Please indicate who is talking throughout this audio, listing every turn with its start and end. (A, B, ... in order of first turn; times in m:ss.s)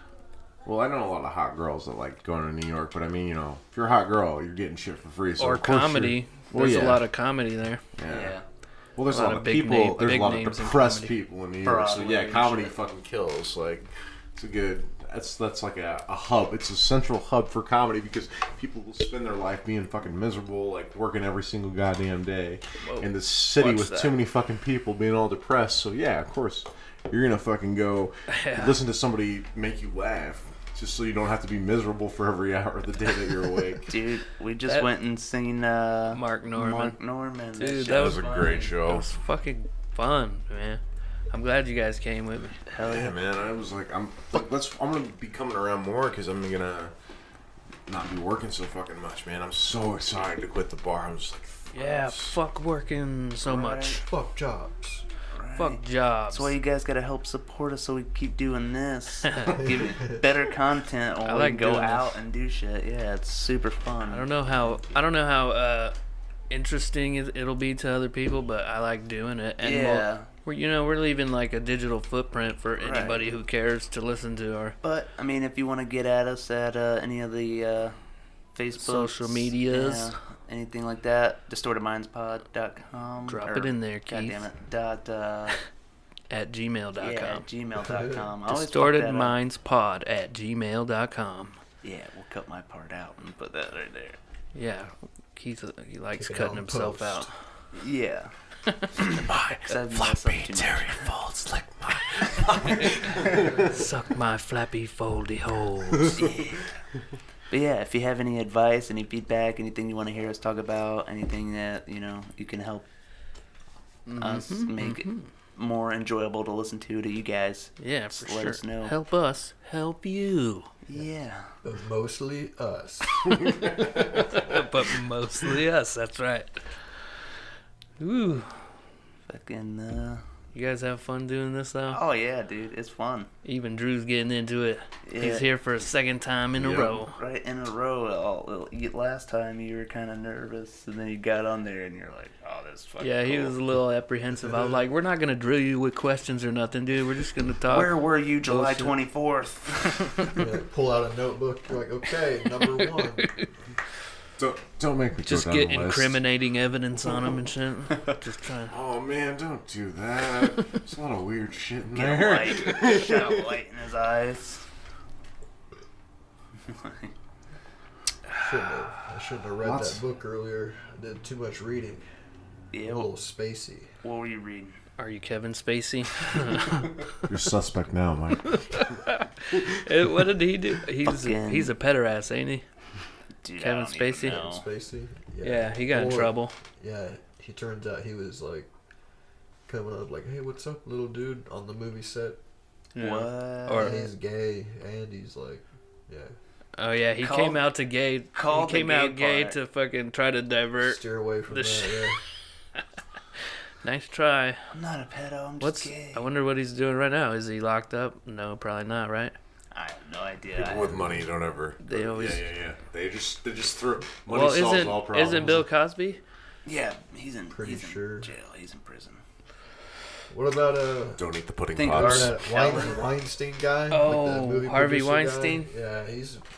0:00.6-0:07.0 A
0:05.4-0:07.8 B
0:08.0-0:08.4 A
0:08.1-0:08.4 C
0:08.9-0:33.9 A
0:09.1-0:11.2 B
0:11.6-0:12.8 C
0:22.8-0:24.2 B
0:28.3-0:28.8 B
0:33.8-0:38.8 C
0:36.1-0:37.0 B
0:37.6-0:43.1 B
0:37.9-0:39.1 A
0:42.8-0:46.9 A
0:47.9-0:52.4 A
0:51.7-0:54.0 B
0:53.4-0:54.0 C
0:54.0-0:55.0 D
0:55.3-1:04.4 C
0:55.6-0:56.5 B
0:59.3-0:59.6 B
1:01.2-1:02.2 B
1:04.1-1:05.9 B
1:06.5-1:14.7 B
1:09.6-1:10.3 C
1:12.8-1:13.2 C
1:14.8-1:18.0 C
1:18.5-1:25.6 C
1:18.8-1:20.2 B
1:23.3-1:24.4 B
1:26.3-1:27.4 B
1:27.0-1:29.4 C
1:27.8-1:28.2 D
1:28.5-1:31.6 B
1:31.8-1:34.2 C
1:34.5-1:37.6 B
1:36.1-1:37.3 D
1:37.7-1:38.3 C
1:38.7-1:43.0 B
1:39.1-1:40.5 A
1:39.6-1:41.1 C
1:41.4-1:43.6 A
1:43.4-1:43.8 D
1:43.7-1:46.1 B
1:46.1-1:46.8 C
1:47.5-1:52.8 C
1:54.0-1:55.3 B
1:54.2-1:58.9 C
1:57.8-2:00.7 B
2:00.8-2:01.5 C
2:01.6-2:03.0 D
2:03.4-2:04.1 A
2:04.1-2:07.0 B
2:08.0-2:08.7 B
2:09.3-2:10.2 C
2:10.5-2:12.0 B
2:11.9-2:13.3 C
2:13.4-2:17.2 B
2:15.0-2:15.5 C
2:16.5-2:16.9 A
2:16.8-2:23.5 C
2:23.0-2:27.9 B
2:24.4-2:24.8 D
2:27.7-2:30.4 C
2:28.4-2:29.0 B
2:30.4-2:33.3 D
2:33.2-2:33.5 B
2:34.4-2:36.2 A
2:35.2-2:38.8 B
2:38.7-2:43.5 A
2:41.9-2:44.7 C
2:46.7-2:47.1 C
2:48.4-2:52.1 D
2:49.6-2:50.0 A
2:52.7-2:53.1 C
2:52.8-2:53.9 D
2:54.0-2:54.8 C
2:55.0-2:57.0 B
2:57.2-2:59.6 A
2:58.7-3:02.6 B
3:01.0-3:01.7 C
3:03.4-3:04.6 C
3:03.6-3:04.5 B
3:04.4-3:08.7 D
3:05.4-3:06.5 B
3:09.7-3:12.4 D
3:12.9-3:14.0 B
3:13.0-3:13.9 C
3:13.7-3:16.3 D
3:16.8-3:22.8 B
3:17.2-3:17.6 C
3:18.3-3:19.6 C
3:20.8-3:22.2 D
3:23.8-3:24.7 B
3:24.7-3:26.2 C
3:25.6-3:29.3 B
3:29.7-3:31.1 C
3:30.5-3:35.6 A
3:30.8-3:31.2 D
3:31.8-3:32.5 B
3:34.3-3:36.2 B
3:36.6-3:39.2 C
3:37.5-3:38.3 D
3:40.3-3:41.2 D
3:41.2-3:42.4 A
3:41.7-3:43.1 C
3:41.8-3:46.4 D
3:43.9-3:45.7 B